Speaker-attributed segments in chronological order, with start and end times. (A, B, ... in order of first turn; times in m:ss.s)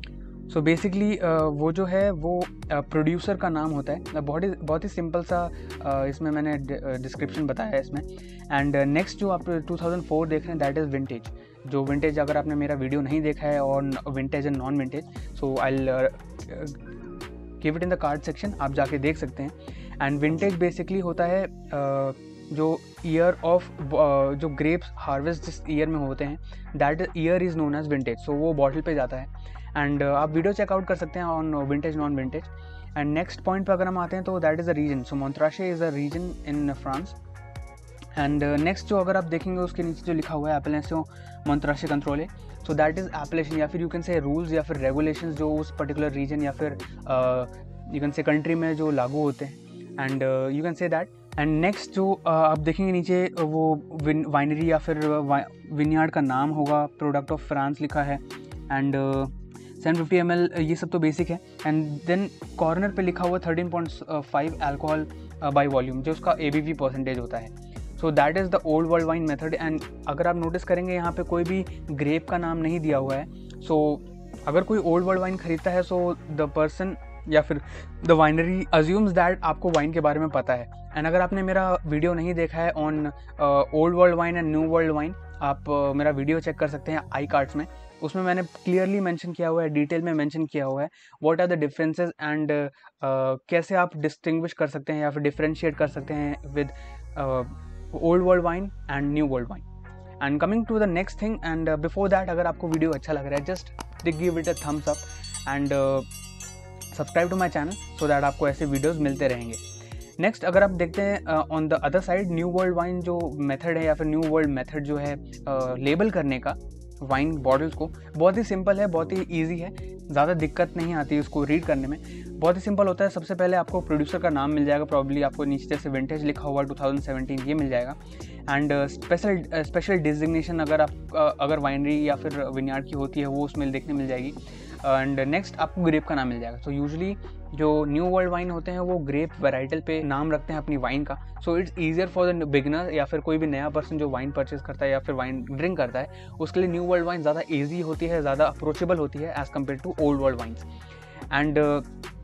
0:00.5-0:16.8 A
0:17.6-0:37.2 A
0:38.2-1:39.6 A
1:40.2-1:46.1 A
1:46.9-1:49.6 A
1:50.2-2:30.7 A
2:31.3-2:31.9 A